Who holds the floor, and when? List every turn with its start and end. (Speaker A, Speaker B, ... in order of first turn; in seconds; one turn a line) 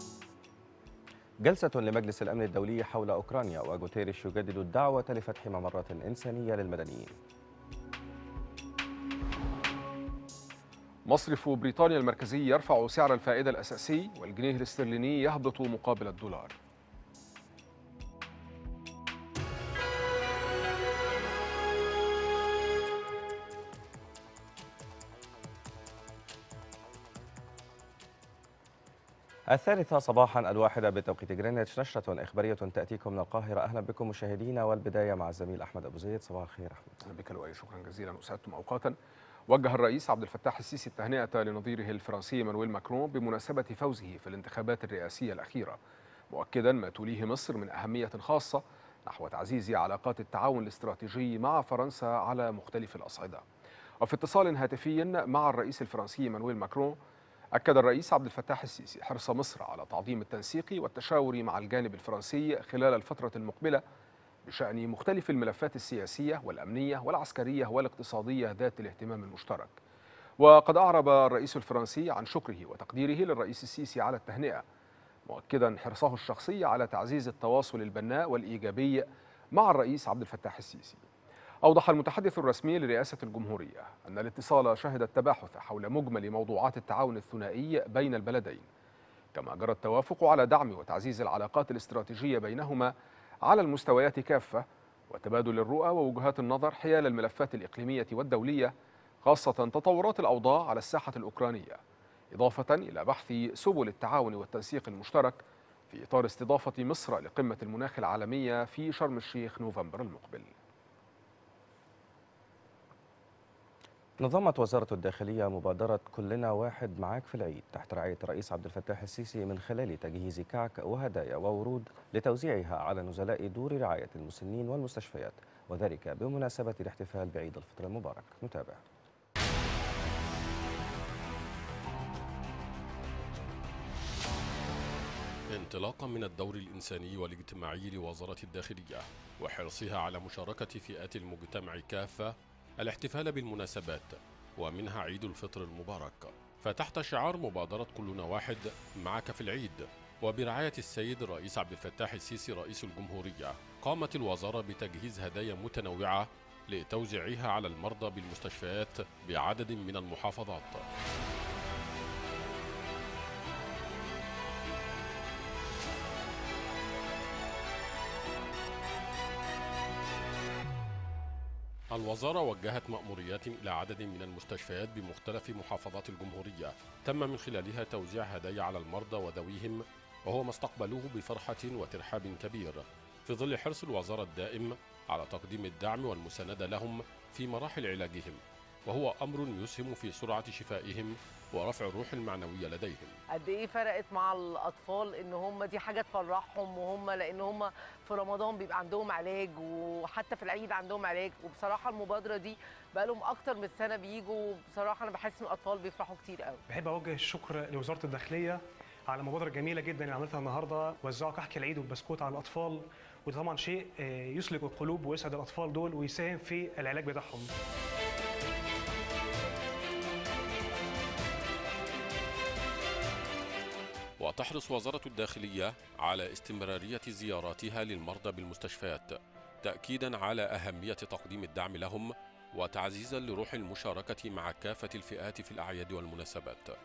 Speaker A: 1.4-7.2
Speaker B: 11.1-16.5
Speaker A: 29.5-37.0
Speaker B: 37.0-38.9
Speaker B: 39.5-45.8
Speaker B: 46.3-53.4
Speaker B: 54.0-57.0
Speaker B: 57.5-63.8
Speaker B: 64.5-69.7
Speaker B: 70.4-74.6
Speaker B: 75.3-81.0
Speaker B: 81.6-88.7
Speaker B: 89.3-92.9
Speaker B: 93.4-98.7
Speaker B: 99.2-101.8
Speaker B: 102.3-110.5
Speaker A: 114.2-128.8
Speaker C: 135.5-160.8
Speaker C: 171.9-193.2
Speaker D: 193.3-206.6
Speaker E: 206.7-217.5
Speaker C: 224.2-236.8